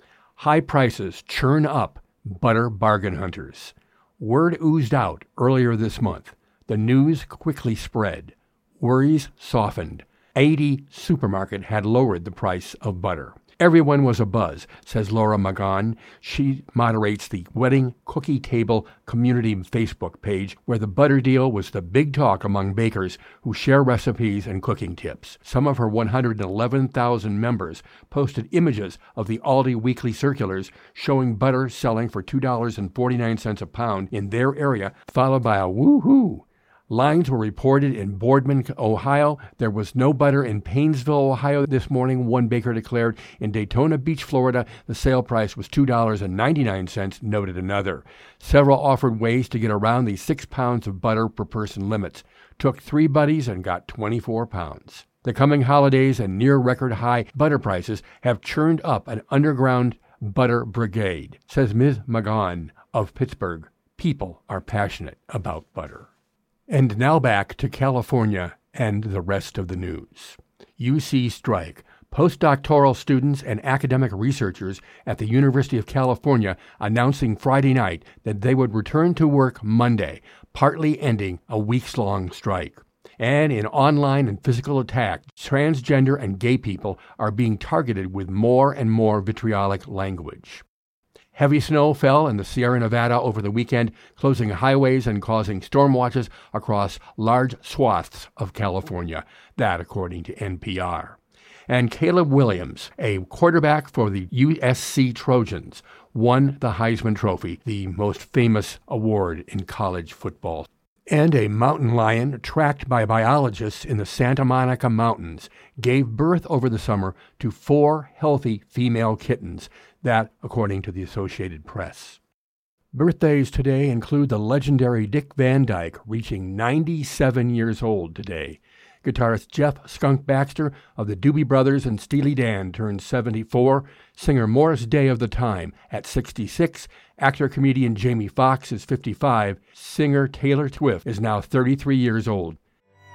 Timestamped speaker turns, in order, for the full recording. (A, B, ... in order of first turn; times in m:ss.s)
0:00.4-1:06.1 A
1:06.7-1:30.6 A
1:31.3-2:02.2 A
2:02.9-2:22.6 A